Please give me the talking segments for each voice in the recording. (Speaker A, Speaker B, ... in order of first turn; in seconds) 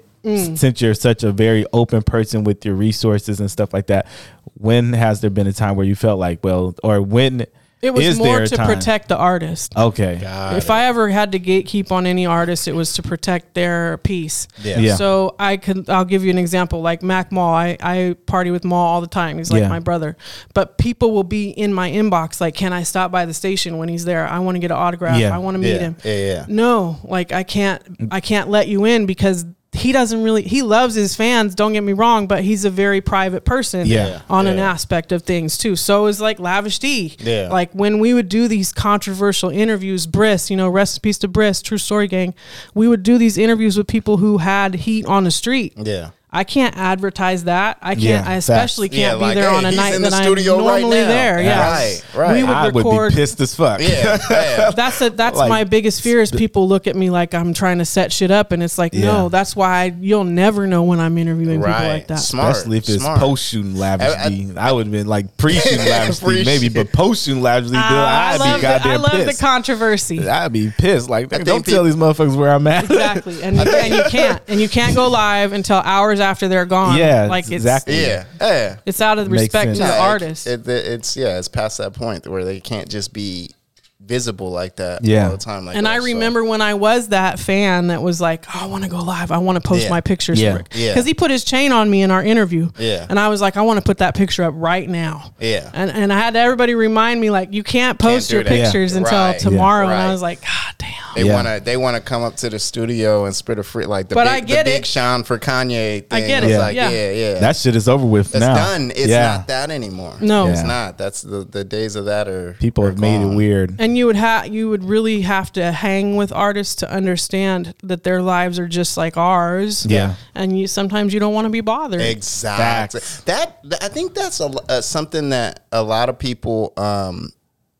Speaker A: 0.2-0.6, 7.8-9.7, 10.5-45.7, 46.3-53.3, 54.7-62.3, 67.7-70.3, 72.8-77.8, 78.8-80.5, 85.7-101.2, 104.1-104.9, 106.1-107.0, 110.2-110.6, 113.8-122.2
Speaker B: 0.3-8.9, 9.8-10.2, 14.7-15.0, 19.5-19.8, 25.1-25.4, 33.8-34.1, 47.9-48.7, 51.4-55.6, 58.9-59.3, 62.4-69.4, 70.2-75.0, 76.8-78.2, 79.2-79.9, 85.0-85.4, 90.3-90.6, 98.5-98.8, 99.4-99.7, 101.2-101.5, 106.4-106.7, 107.4-109.4, 110.4-110.8, 112.6-113.8, 119.8-120.2, 122.5-123.0
Speaker C: 10.2-10.8, 14.6-14.8, 25.6-26.5, 33.9-34.7, 37.2-37.5, 45.8-46.1, 48.9-52.6, 53.8-54.8, 61.5-63.3, 64.0-64.5, 65.5-66.8, 68.3-68.7, 71.3-71.8, 77.8-78.8, 79.7-86.3, 89.7-90.0, 90.7-91.1, 92.8-93.1, 95.4-95.7, 98.0-100.2, 101.1-107.5, 108.3-113.4, 119.8-120.1, 122.0-127.3